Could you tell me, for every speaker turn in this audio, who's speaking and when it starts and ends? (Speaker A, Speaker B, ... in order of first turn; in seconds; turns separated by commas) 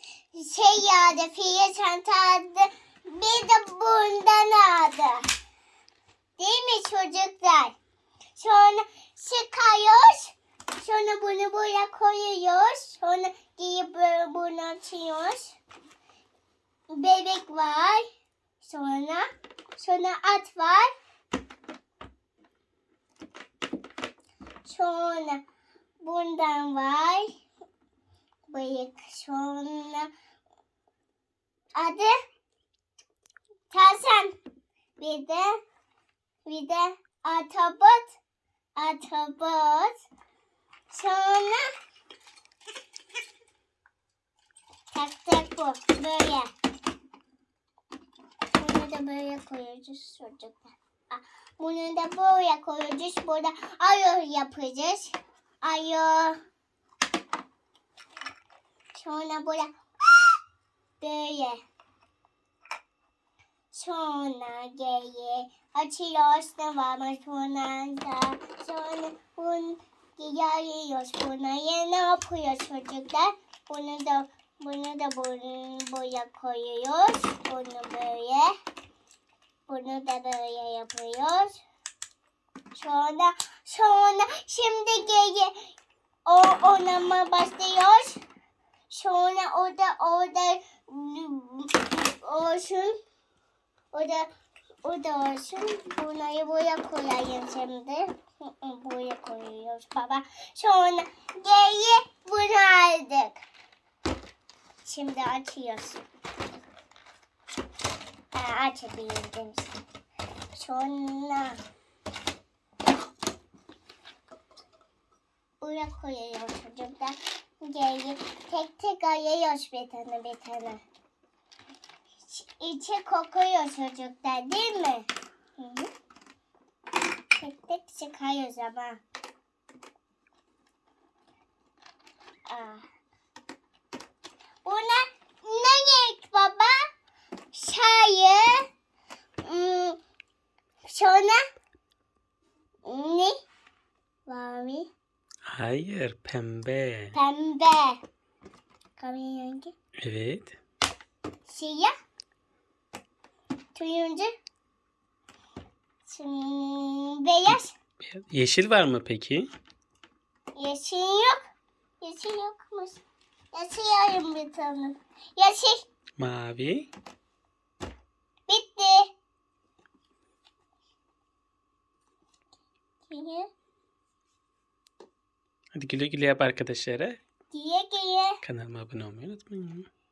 Speaker A: 0.3-5.3, Speaker A: 6.4-7.8, Speaker A: 8.3-15.6, Speaker A: 16.9-18.0, Speaker A: 18.6-19.2, Speaker A: 19.8-20.9, Speaker A: 24.6-25.4, Speaker A: 26.0-27.3, Speaker A: 28.5-30.1, Speaker A: 31.8-32.1, Speaker A: 33.7-34.3, Speaker A: 35.0-35.6, Speaker A: 36.4-38.2, Speaker A: 38.8-40.0, Speaker A: 40.9-41.7, Speaker A: 44.9-46.5, Speaker A: 48.5-56.4, Speaker A: 58.9-60.4, Speaker A: 61.0-61.6, Speaker A: 63.7-78.5, Speaker A: 79.7-81.6, Speaker A: 82.7-85.6, Speaker A: 86.2-88.2, Speaker A: 88.9-93.0, Speaker A: 93.9-94.3, Speaker A: 94.8-103.4, Speaker A: 104.8-106.0, Speaker A: 108.3-109.7, Speaker A: 110.5-111.6, Speaker A: 115.6-120.8, Speaker A: 122.2-125.9, Speaker A: 127.4-129.0, Speaker A: 132.5-132.8, Speaker A: 134.6-136.8, Speaker A: 137.5-138.6, Speaker A: 139.4-140.0, Speaker A: 140.9-141.4, Speaker A: 142.8-143.3, Speaker A: 144.3-144.9, Speaker B: 145.5-147.1, Speaker A: 147.1-148.0, Speaker A: 149.0-149.7, Speaker B: 150.0-150.6, Speaker A: 151.5-151.9, Speaker A: 153.7-154.3, Speaker A: 156.1-157.7, Speaker B: 158.0-159.5, Speaker A: 160.6-161.4, Speaker A: 162.0-163.0, Speaker A: 163.5-165.8, Speaker B: 166.2-166.9, Speaker A: 168.5-169.1, Speaker A: 173.1-173.5, Speaker B: 175.7-177.2, Speaker A: 177.5-178.4, Speaker B: 178.4-179.9